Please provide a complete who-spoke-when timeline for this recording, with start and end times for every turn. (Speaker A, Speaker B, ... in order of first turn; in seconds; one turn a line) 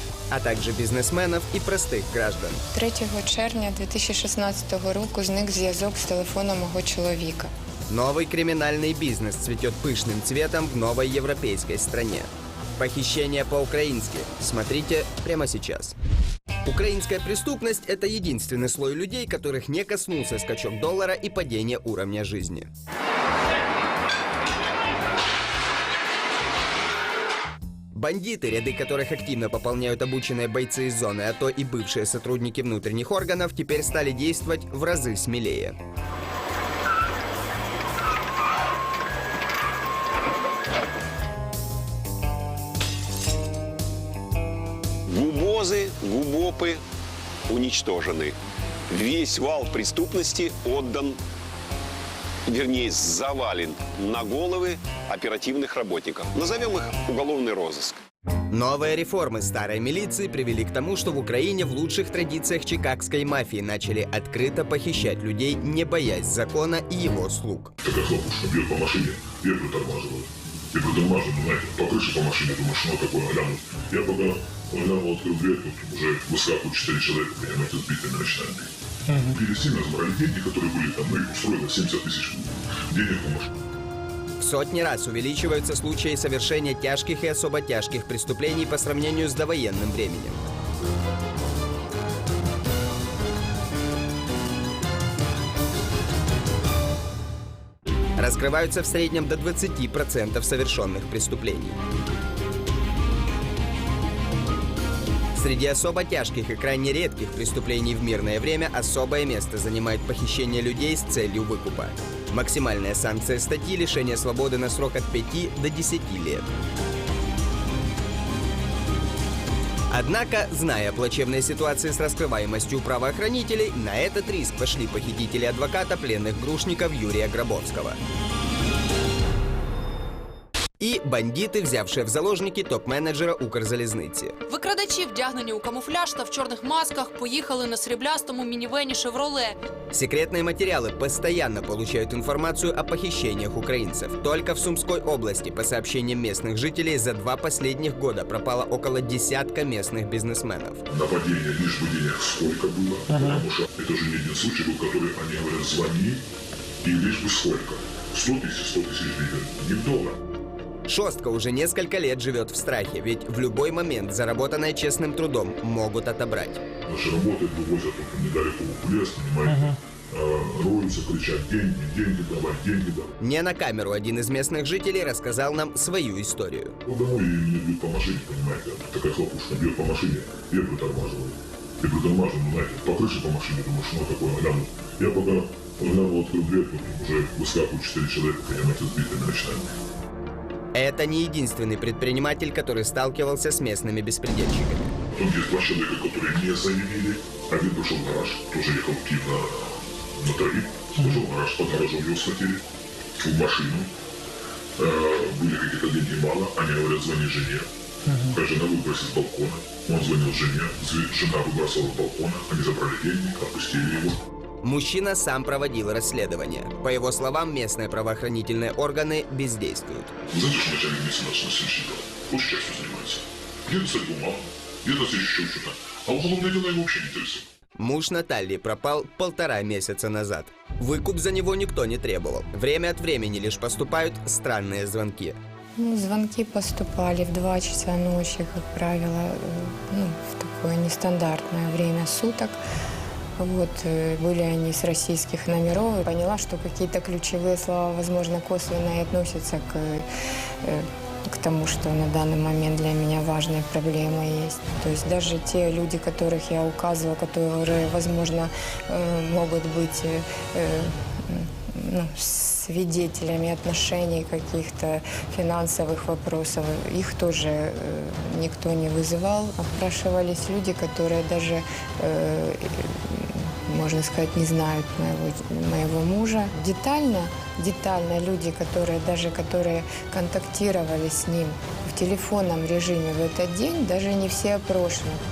Speaker A: 0.3-2.6
Speaker B: 2.7-7.5
Speaker A: 7.9-15.9
Speaker A: 16.6-22.7
Speaker A: 27.9-35.8
Speaker C: 45.1-46.8
Speaker C: 47.5-48.4
Speaker C: 48.9-51.2
Speaker C: 52.5-58.0
Speaker A: 58.5-67.7
Speaker D: 67.8-83.5
Speaker A: 84.4-90.4
Speaker A: 98.2-101.8
Speaker A: 105.3-116.5
Speaker A: 119.9-128.0
Speaker A: 130.8-134.3
Speaker E: 134.5-139.6
Speaker A: 139.9-150.8
Speaker D: 150.9-156.2
Speaker D: 156.8-160.2
Speaker A: 160.9-166.6
Speaker D: 166.8-173.1
Speaker A: 173.2-176.7
Speaker D: 176.9-189.8
Speaker A: 190.7-194.9
Speaker D: 195.1-202.6
Speaker D: 203.2-203.9
Speaker D: 204.8-214.2
Speaker A: 214.6-220.1
Speaker D: 220.3-227.5
Speaker A: 227.8-235.4
Speaker B: 235.8-242.6
Speaker B: 243.4-250.0
Speaker B: 250.6-285.2